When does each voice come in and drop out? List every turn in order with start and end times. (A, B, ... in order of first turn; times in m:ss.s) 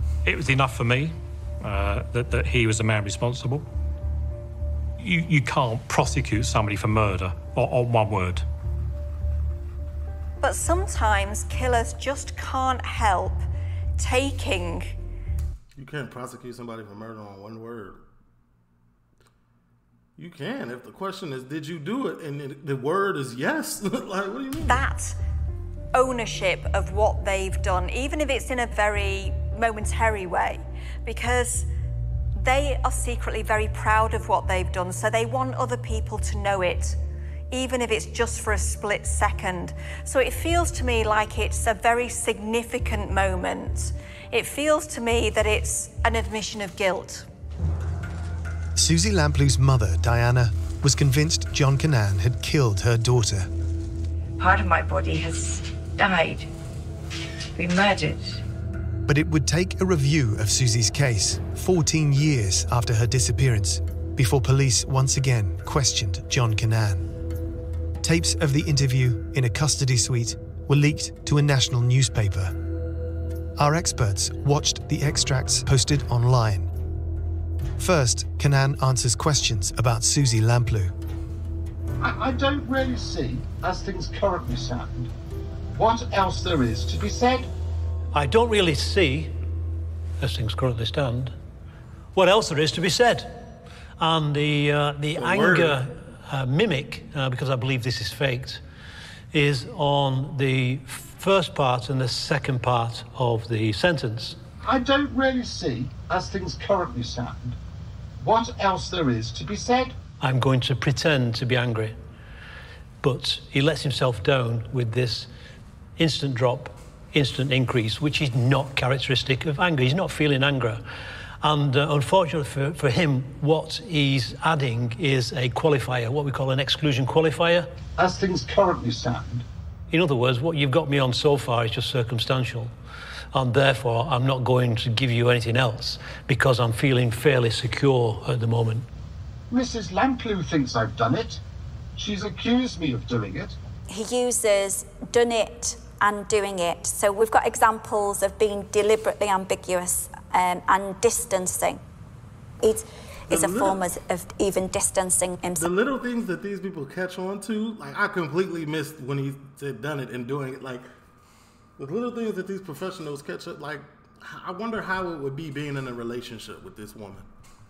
0:00.2-0:03.6 A
0:05.0-0:08.4 A
0:10.4-0:13.4 B
0:14.0-0:14.9 B
0:15.8-0:18.0 C
0:20.2-0:24.8 C
0:24.6-0:25.2 B
0:25.9-0:31.7 B
0:32.4-0:37.0 B
0:37.5-0:47.2 B
0:48.7-0:53.5 D
0:54.4-0:56.5 E
0:57.6-0:58.4 E
0:59.1-1:07.0 D
1:08.0-1:12.5 D
1:13.6-1:16.7 D
1:17.8-1:20.9 D
1:22.0-1:25.1 F
1:25.7-1:27.5 F
1:28.1-1:29.4 G
1:30.2-1:31.3 G
1:32.1-1:38.6 G
1:35.2-1:35.8 C
1:39.3-1:44.4 G
1:44.6-1:47.6 F
1:48.2-1:49.9 F
1:50.2-1:52.0 G
1:53.0-1:55.3 G
1:56.0-2:00.8 G
2:01.4-2:07.7 G
2:08.0-2:09.4 F
2:09.9-2:12.7 G
2:13.3-2:18.9 G
2:19.5-2:21.4 F
2:22.0-2:23.6 F
2:23.9-2:31.8 H
2:32.6-2:35.7 H
2:33.3-2:33.8 C
2:35.6-2:40.9 C
2:41.8-2:47.2 C